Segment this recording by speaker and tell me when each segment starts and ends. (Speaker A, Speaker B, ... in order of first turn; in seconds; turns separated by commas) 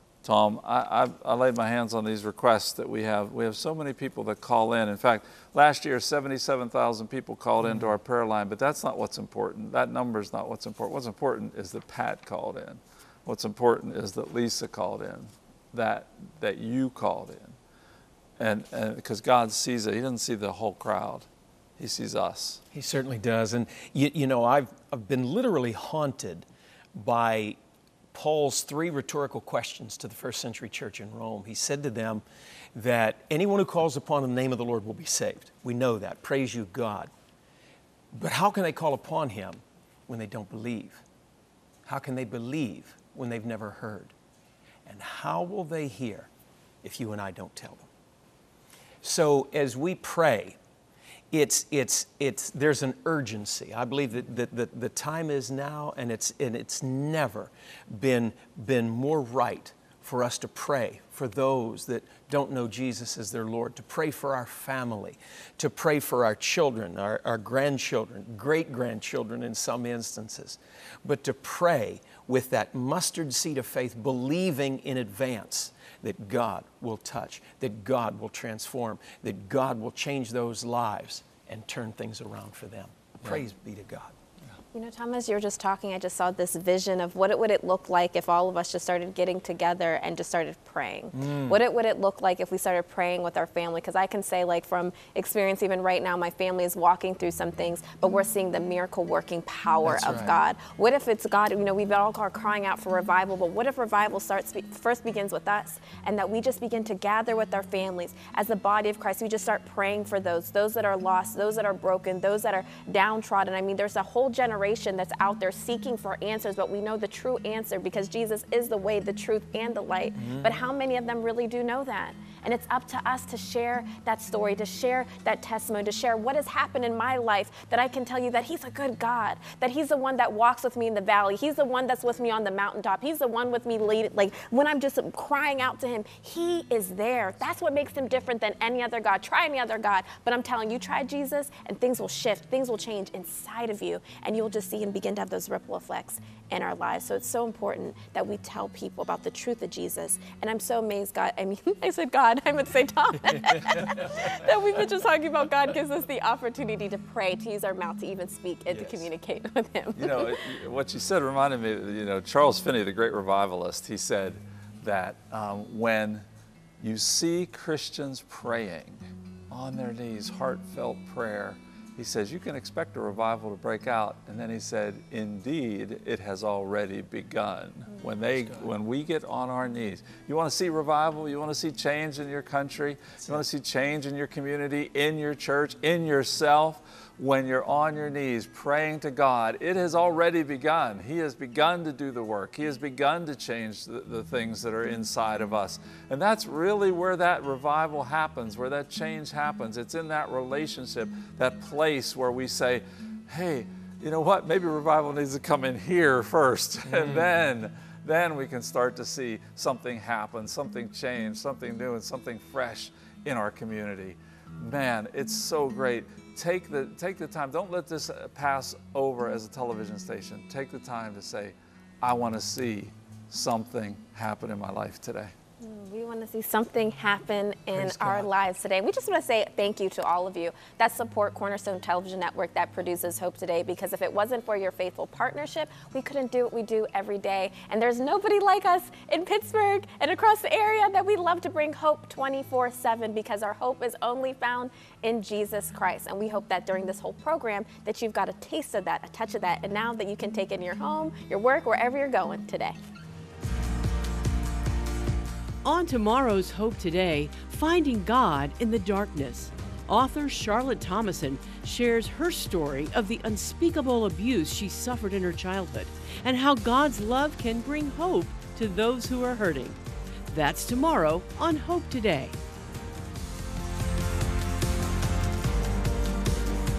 Speaker A: 0.2-17.6, Speaker B: 7.6-7.9, Speaker A: 18.4-21.3, Speaker A: 21.8-22.6, Speaker B: 22.7-27.6, Speaker B: 28.1-32.2, Speaker B: 32.7-37.1, Speaker B: 38.1-41.0, Speaker B: 41.8-44.1, Speaker B: 44.9-46.3, Speaker B: 46.8-47.9, Speaker B: 49.0-50.6, Speaker B: 51.3-84.1, Speaker C: 84.7-160.4, Speaker B: 91.1-91.6, Speaker B: 99.8-100.4, Speaker B: 120.2-120.6, Speaker A: 159.9-166.2, Speaker A: 166.8-225.3, Speaker B: 178.2-178.7, Speaker B: 206.9-207.4, Speaker C: 225.6-252.8, Speaker B: 227.7-228.2, Speaker D: 255.6-269.8, Speaker D: 270.3-272.4